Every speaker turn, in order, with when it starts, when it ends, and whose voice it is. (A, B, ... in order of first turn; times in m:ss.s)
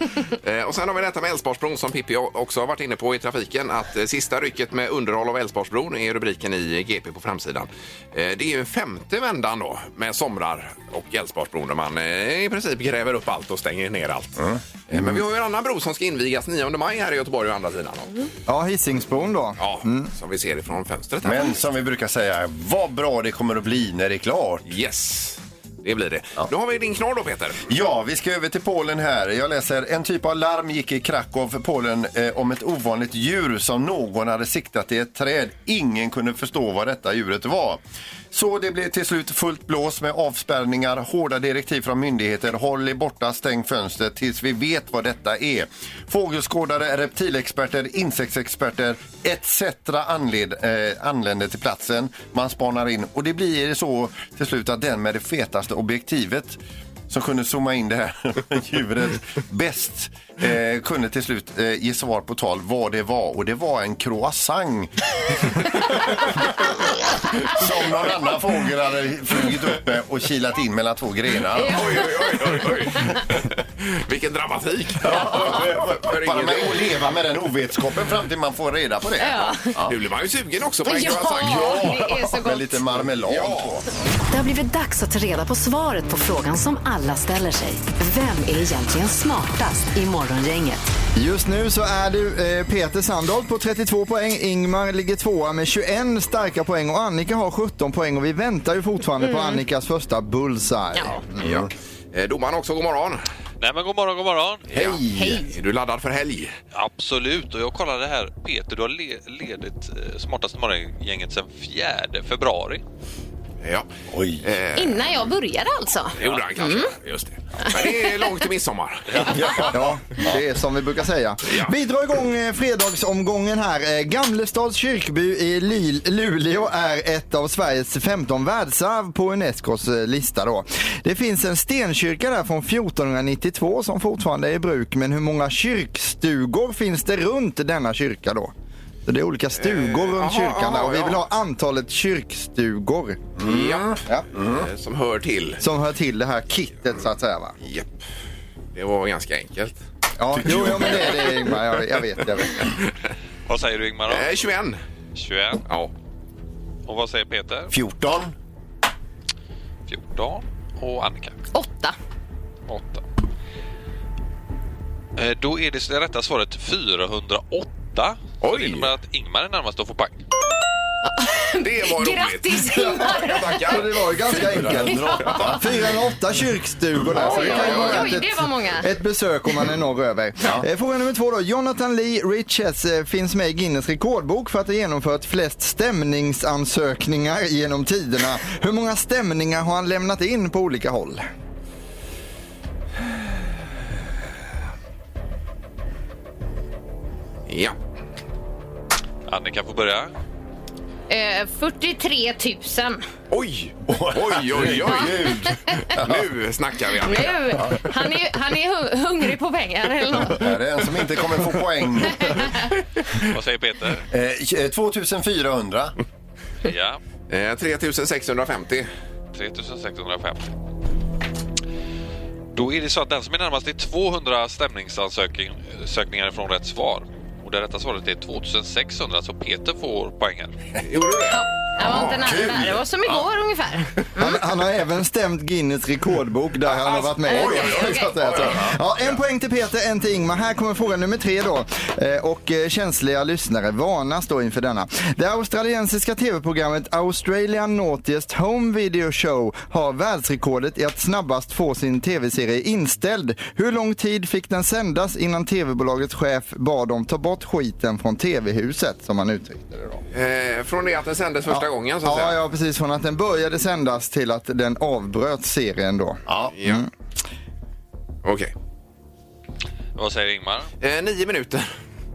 0:00.2-0:18.1 A
0:14.4-0:15.2 B
0:18.5-0:20.1 C
0:19.6-0:21.6 A
0:21.2-0:24.6 B
0:24.6-0:27.6 A
0:27.7-0:37.8 B
0:38.3-0:56.6 B
0:57.1-1:06.7 B
1:07.3-1:12.0 B
1:11.6-1:12.7 D
1:11.6-1:17.0 A
1:15.0-1:19.9 B
1:19.2-1:19.7 D
1:19.9-1:21.9 A
1:20.8-1:22.8 D
1:21.4-1:23.9 B
1:23.2-1:23.8 A
1:24.3-1:30.8 E
1:31.2-1:41.4 C
1:39.2-1:39.6 D
1:41.4-1:41.7 B
1:41.4-1:43.2 A
1:43.6-1:44.7 F
1:44.7-1:45.4 B
1:44.7-1:46.5 A
1:45.1-1:45.5 D
1:46.7-1:52.8 F
1:53.6-1:53.9 A
1:54.1-1:54.4 B
1:54.4-1:55.1 A
1:54.8-1:56.9 D
1:56.2-1:59.5 A
1:57.6-1:58.3 D
1:59.1-1:59.4 F
1:59.2-2:00.4 B
1:59.7-2:18.5 C
2:01.5-2:01.7 A
2:19.0-2:23.2 C
2:19.6-2:21.2 A
2:23.4-2:24.7 B
2:23.4-2:25.6 A
2:25.6-2:27.6 C
2:27.6-2:28.0 A
2:28.7-2:29.8 A
2:30.2-2:32.7 C
2:30.3-2:31.4 B
2:33.5-2:34.3 F
2:34.1-2:34.8 A
2:35.1-2:35.6 F
2:36.8-2:37.7 F
2:37.7-2:38.3 B
2:39.9-2:41.3 F
2:41.5-2:41.9 D
2:42.7-2:43.0 F
2:45.2-2:50.1 F
2:48.4-2:48.9 A
2:51.0-2:53.8 D
2:51.6-2:54.5 A
2:53.6-3:11.2 C
2:54.3-2:55.9 B
2:54.8-2:55.6 D
2:57.1-2:57.9 B
2:57.2-2:58.1 A
2:57.2-2:58.9 D
3:17.5-3:17.7 A
3:19.3-3:20.1 F
3:21.1-3:23.0 D
3:23.3-3:27.7 A
3:23.9-3:26.3 B
3:27.0-3:30.4 D
3:30.3-3:32.5 B
3:32.1-3:32.5 D
3:33.3-3:34.0 F
3:34.1-3:35.9 B
3:36.6-3:37.0 F
3:37.3-3:38.9 A
3:39.3-3:40.5 F
3:42.5-3:50.5 F
3:50.8-3:52.2 A
3:51.3-3:54.4 D
3:51.8-3:53.2 B
3:54.2-4:20.0 C
3:56.7-3:58.7 A
3:57.2-3:58.1 D
3:57.6-3:58.7 B
4:20.1-4:22.4 A
4:21.5-4:26.9 C
4:26.3-4:26.5 B
4:26.5-4:26.8 A
4:28.2-4:28.5 A
4:30.0-4:30.7 F
4:30.8-4:31.7 A